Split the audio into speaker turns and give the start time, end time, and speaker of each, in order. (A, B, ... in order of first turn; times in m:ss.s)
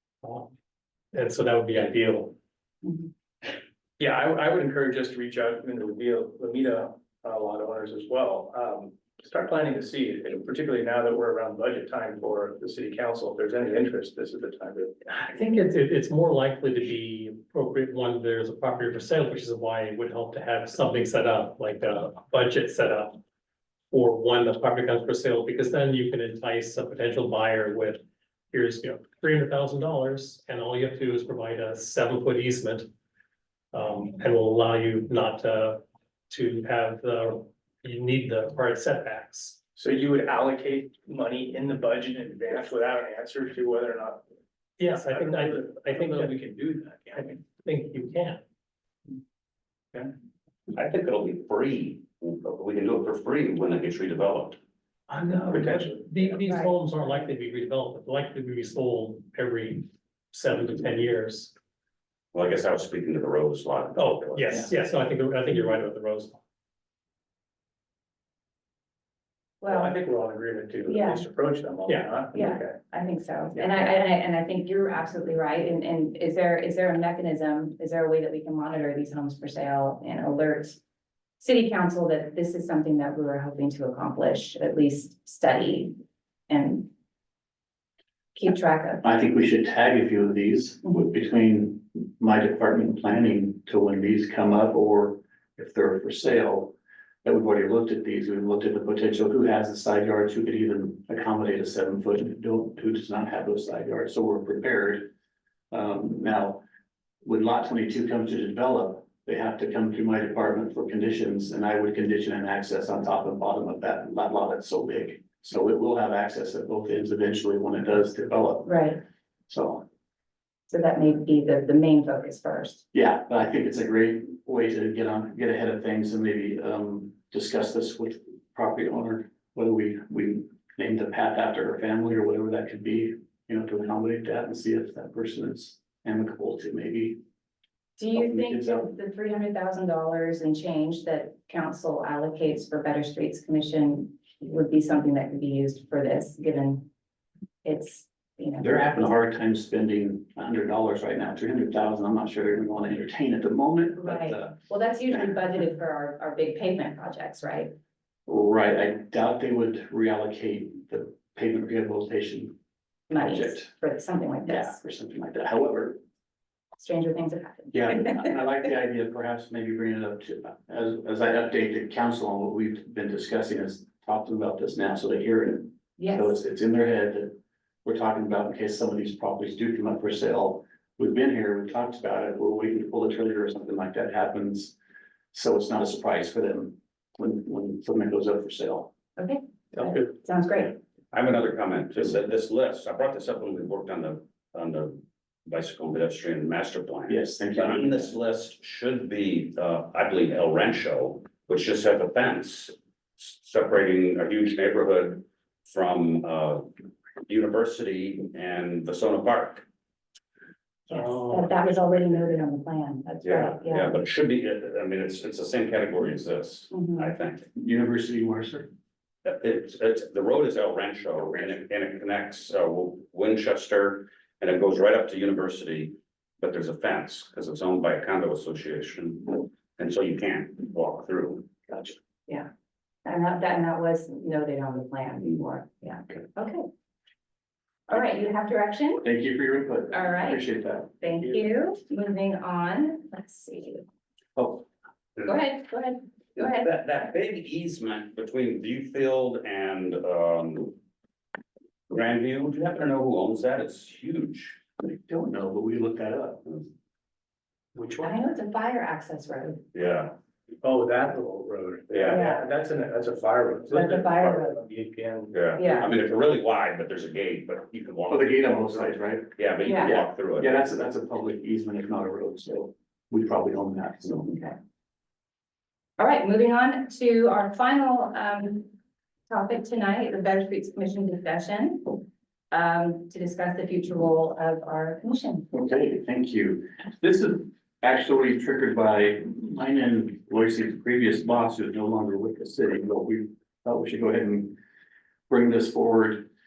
0:00.2-0:00.5 A
0:01.1-0:02.4 A
0:04.0-0:14.9 B
0:15.1-0:23.2 A
0:23.9-0:28.0 A
0:28.5-0:32.9 A
0:33.7-0:39.6 A
0:39.8-0:44.2 B
0:44.8-0:46.3 A
0:44.9-0:47.4 B
0:47.2-0:48.4 A
0:50.7-0:54.6 C
0:55.1-1:01.5 A
0:55.3-0:56.4 B
0:56.4-0:56.7 D
1:02.3-1:04.6 C
1:04.0-1:06.4 A
1:09.6-1:10.0 D
1:09.6-1:12.8 B
1:10.8-1:11.3 D
1:12.3-1:20.8 D
1:21.4-1:26.9 D
1:28.4-1:29.0 D
1:29.0-1:45.1 E
1:30.8-1:31.1 D
1:45.7-1:46.6 E
1:47.2-1:58.9 E
1:58.6-1:59.0 D
1:59.5-1:59.8 E
2:00.7-2:02.8 D
2:02.9-2:17.2 E
2:18.0-2:26.9 D
2:18.2-2:18.9 E
2:27.6-2:28.8 D
2:28.6-2:35.3 E
2:34.0-2:37.7 D
2:38.3-2:42.6 E
2:43.1-2:44.8 D
2:43.1-2:43.7 E
2:44.4-2:46.0 E
2:46.8-2:48.3 D
2:47.7-3:04.8 E
2:56.0-2:56.4 D
3:05.3-3:08.9 E
3:09.2-3:10.8 D
3:11.1-3:26.7 C
3:17.1-3:18.2 E
3:27.3-3:29.6 C
3:30.9-3:34.0 D
3:33.2-3:37.5 C
3:36.7-3:37.1 D
3:37.6-3:38.7 E
3:39.2-3:51.6 C
3:53.0-3:56.7 D
3:57.9-3:59.0 D
3:59.0-4:00.9 E
3:59.9-4:00.4 D
4:01.0-4:03.8 D
4:04.4-4:04.6 E
4:05.2-4:06.7 D
4:06.4-4:10.8 C
4:11.9-4:14.6 C
4:14.8-4:16.5 E
4:17.8-4:18.2 B
4:18.0-4:19.6 D
4:19.7-4:20.1 C
4:20.6-4:25.8 B
4:21.9-4:22.2 C
4:22.1-4:22.5 D
4:23.7-4:24.6 D
4:25.3-4:30.5 C
4:25.6-4:25.9 D
4:28.1-4:29.4 E
4:29.6-4:30.0 D
4:29.9-4:34.3 E
4:34.2-4:34.6 D
4:36.0-4:38.7 D
4:39.3-4:42.0 D
4:42.5-4:45.5 D
4:45.5-4:54.6 E
4:55.3-4:56.3 E